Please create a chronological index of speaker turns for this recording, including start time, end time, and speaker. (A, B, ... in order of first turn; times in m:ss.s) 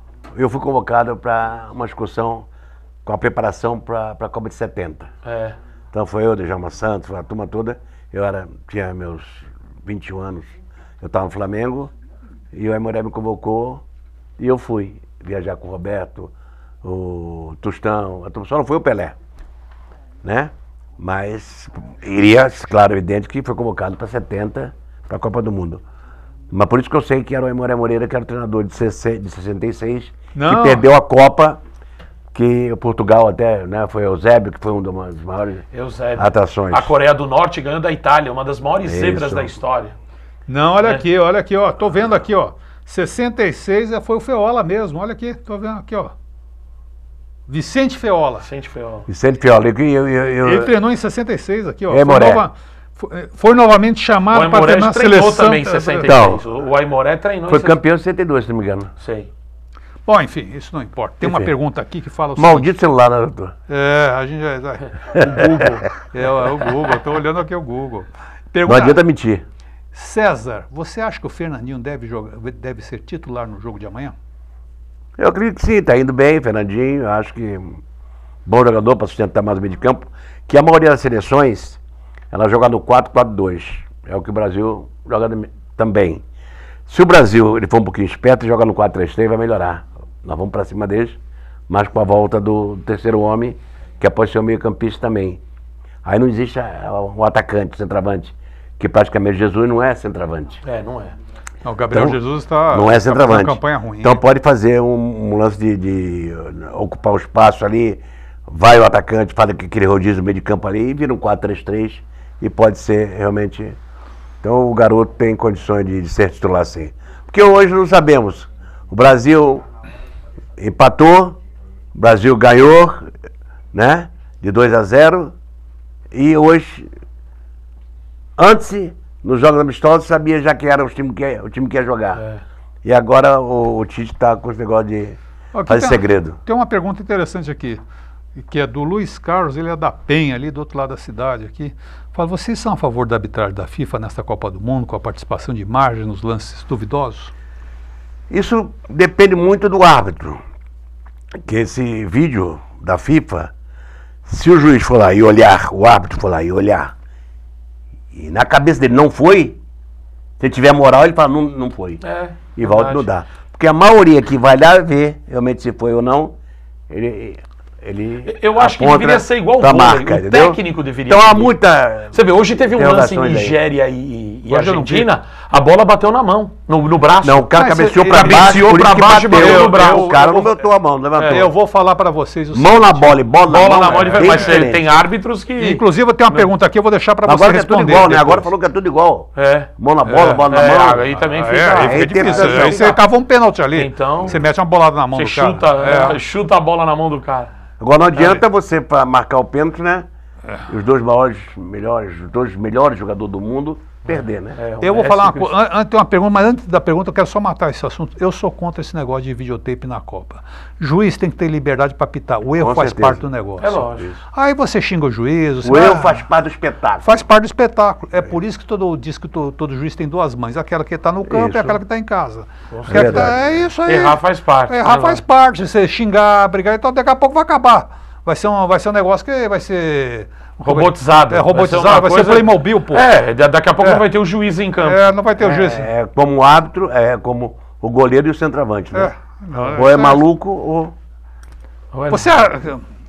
0:00.3-0:02.5 A
0:03.0-0:05.1 A
0:05.2-0:05.6 B
0:05.9-0:11.9 A
0:12.5-0:13.8 A
0:14.4-0:19.2 A
0:20.2-0:25.8 A
0:26.5-0:31.6 A
0:30.3-0:30.9 C
0:32.3-0:35.6 A
0:35.7-0:40.0 B
0:36.2-0:36.9 A
0:38.8-0:39.6 A
0:40.5-0:46.1 C
0:47.5-0:48.4 C
0:48.4-0:49.1 B
0:49.1-0:50.7 A
0:50.4-0:56.1 C
0:51.9-0:52.4 A
0:54.3-0:57.8 B
0:56.0-0:56.4 A
0:57.5-0:58.9 A
0:59.0-0:59.3 B
1:00.0-1:02.7 C
1:01.2-1:01.5 A
1:02.4-1:03.5 A
1:03.7-1:09.0 C
1:05.1-1:05.4 A
1:08.6-1:09.4 A
1:09.9-1:14.1 C
1:15.2-1:17.8 A
1:18.4-1:21.8 A
1:22.3-1:26.2 A
1:26.9-1:35.4 A
1:36.0-1:40.6 A
1:40.6-1:41.1 B
1:41.6-1:44.2 C
1:41.9-1:53.8 A
1:54.4-1:59.6 A
2:00.6-2:01.4 A
2:01.9-2:03.1 A
2:03.7-2:05.3 A
2:06.1-2:06.9 A
2:08.4-2:12.2 A
2:12.2-2:12.4 B
2:12.8-2:16.4 A
2:15.5-2:17.8 C
2:18.4-2:27.3 C
2:28.3-2:30.4 A
2:31.4-2:33.5 A
2:34.2-2:36.9 A
2:38.1-2:39.6 A
2:40.4-2:42.0 A
2:42.0-2:43.1 B
2:42.5-2:46.3 A
2:46.9-2:53.6 A
2:48.2-2:51.5 B
2:52.1-2:57.5 B
2:54.5-2:55.1 C
2:57.2-3:01.5 A
2:57.5-3:00.6 C
2:58.1-3:00.2 B
3:01.2-3:01.5 B
3:01.3-3:04.7 C
3:02.5-3:04.8 A
3:03.5-3:06.5 B
3:05.6-3:08.5 C
3:07.2-3:11.0 A
3:09.4-3:09.7 B
3:10.0-3:10.5 C
3:10.5-3:13.0 B
3:11.0-3:16.2 C
3:11.8-3:12.8 A
3:13.7-3:14.4 B
3:15.1-3:17.5 B
3:17.8-3:20.1 A
3:18.2-3:18.4 C
3:20.7-3:24.6 A
3:24.6-3:25.5 B
3:24.8-3:36.2 C
3:32.6-3:33.2 A
3:33.6-3:34.1 B
3:33.9-3:34.2 A
3:35.6-3:37.2 A
3:37.0-3:53.1 C
3:41.2-3:41.8 A
3:42.7-3:43.2 B
3:42.8-3:43.6 A
3:43.8-3:45.2 B
3:50.6-3:55.1 B
3:54.8-3:55.9 C
3:55.4-3:59.1 A
3:58.9-4:00.2 C
3:59.7-4:00.9 A
4:01.9-4:02.4 B
4:02.1-4:02.8 C